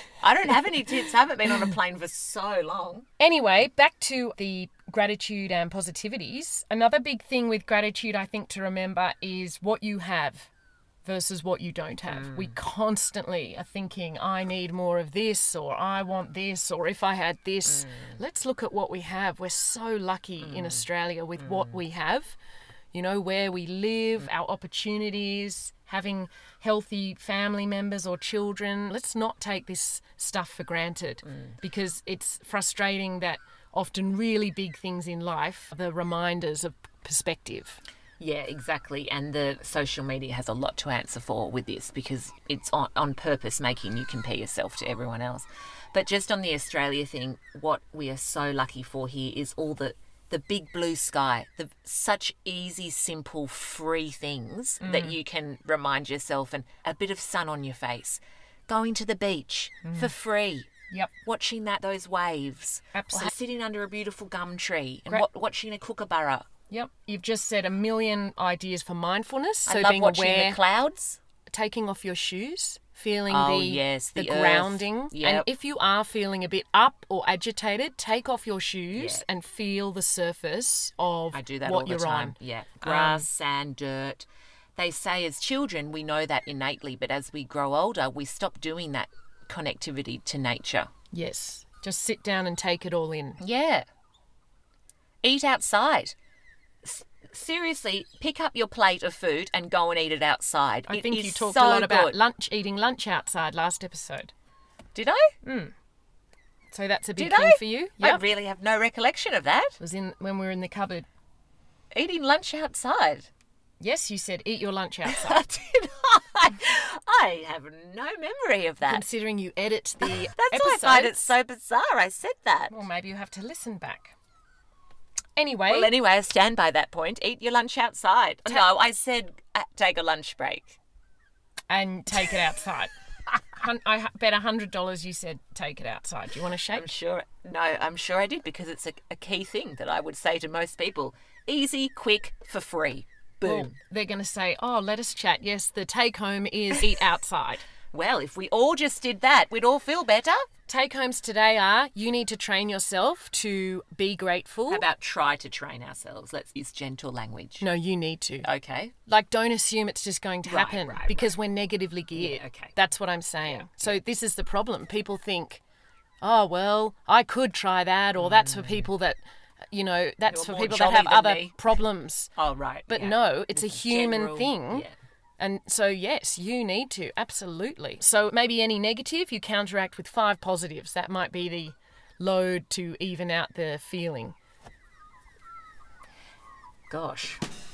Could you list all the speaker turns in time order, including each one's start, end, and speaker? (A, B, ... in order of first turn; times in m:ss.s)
0:00.2-0:03.1 A
0:03.2-0:10.5 B
0:11.0-0:22.4 B
0:12.1-0:12.6 A
0:17.7-0:18.2 A
0:20.4-0:20.8 A
0:21.4-0:21.8 A
0:22.9-0:37.8 B
0:31.2-0:31.5 A
0:38.2-1:00.7 A
0:54.8-0:55.2 B
0:59.8-1:00.1 B
1:01.2-1:06.5 A
1:02.9-1:03.3 B
1:06.7-1:10.6 B
1:09.7-1:11.2 A
1:11.5-1:23.3 B
1:13.3-1:15.5 A
1:18.9-1:19.2 A
1:21.3-1:30.9 A
1:31.1-1:33.4 B
1:33.4-1:33.8 A
1:35.2-1:36.1 A
1:36.8-1:42.2 A
1:40.9-1:44.3 B
1:45.0-1:45.3 A
1:45.4-1:45.7 B
1:46.7-1:48.2 B
1:47.2-1:49.8 A
1:49.8-1:51.1 B
1:51.9-1:53.3 A
1:53.8-1:55.5 B
1:55.0-1:59.0 A
1:58.8-2:01.4 B
2:00.0-2:02.8 A
2:02.7-2:04.2 B
2:05.4-2:06.0 B
2:05.7-2:10.8 A
2:08.4-2:08.7 B
2:11.7-2:12.9 B
2:13.4-2:17.0 B
2:16.7-2:23.7 A
2:23.4-2:27.7 B
2:27.9-2:30.4 A
2:30.7-2:34.9 B
2:34.7-2:37.6 A
2:37.6-2:38.5 B
2:38.4-2:38.9 A
2:39.1-2:45.6 B
2:40.4-2:41.4 A
2:42.1-2:42.7 A
2:43.4-2:44.0 A
2:46.2-2:52.3 B
2:48.2-2:48.9 A
2:50.3-2:51.7 A
2:52.4-2:54.9 A
2:52.9-3:04.4 B
3:06.9-3:07.4 A